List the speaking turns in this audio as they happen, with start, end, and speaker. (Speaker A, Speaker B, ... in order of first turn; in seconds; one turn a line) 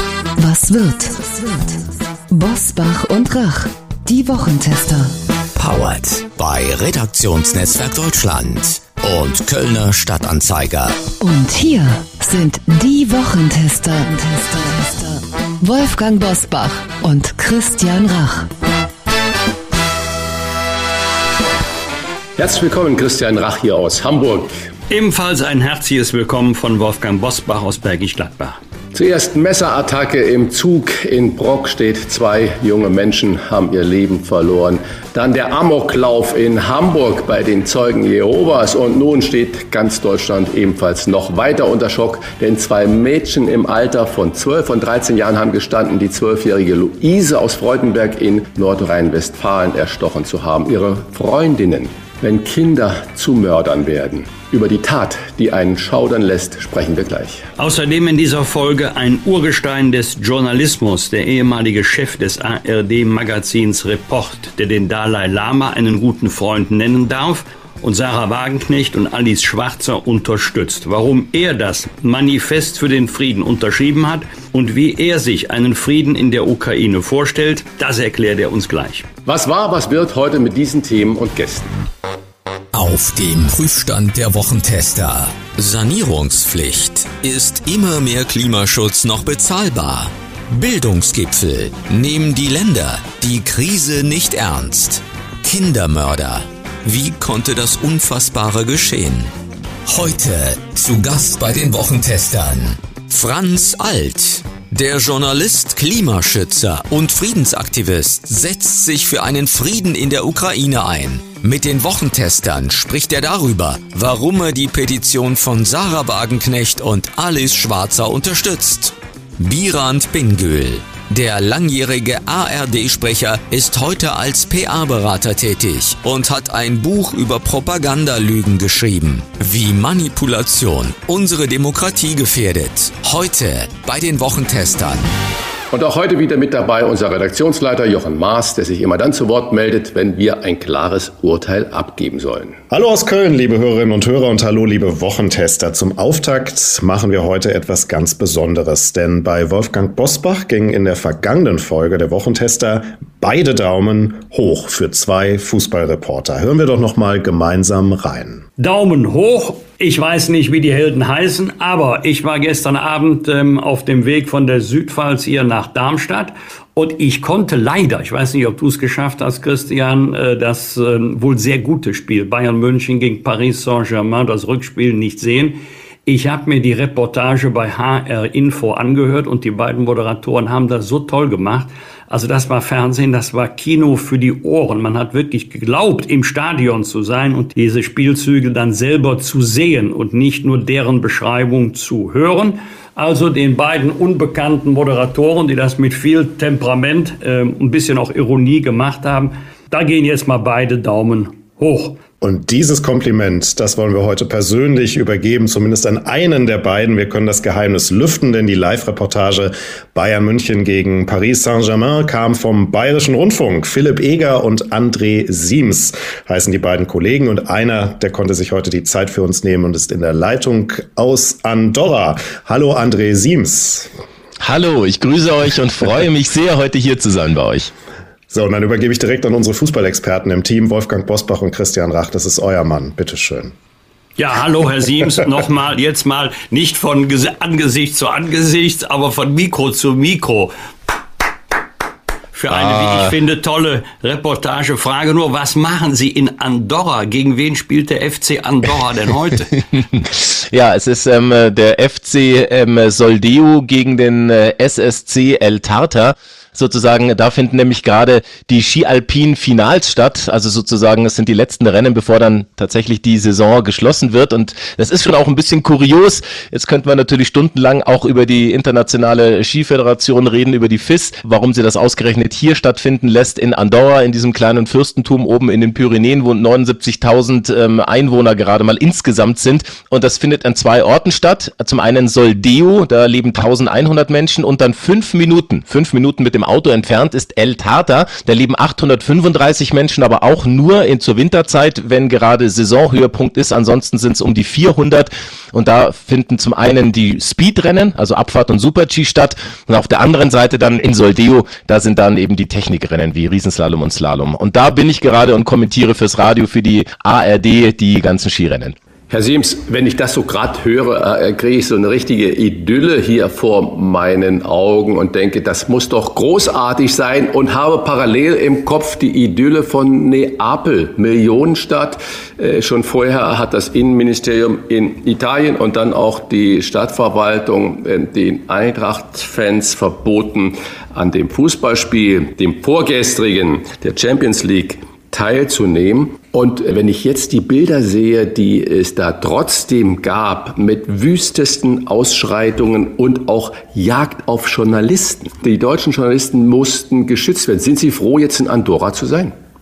Speaker A: 0.4-5.1
Speaker B: 5.5-11.0
Speaker A: 11.2-18.5
Speaker C: 22.4-24.5
Speaker D: 24.9-28.6
Speaker C: 28.9-57.5
Speaker D: 57.6-79.0
Speaker C: 79.2-81.8
Speaker B: 82.7-99.3
Speaker B: 99.9-135.1
Speaker C: 135.7-142.6
Speaker E: 142.7-158.4
Speaker D: 158.6-202.0
Speaker E: 202.2-223.9
Speaker F: 224.4-227.7
Speaker E: 228.3-233.5
Speaker D: 234.2-240.5
Speaker D: 242.3-249.5
Speaker F: 242.5-243.0
Speaker F: 250.0-308.8
Speaker C: 309.1-349.3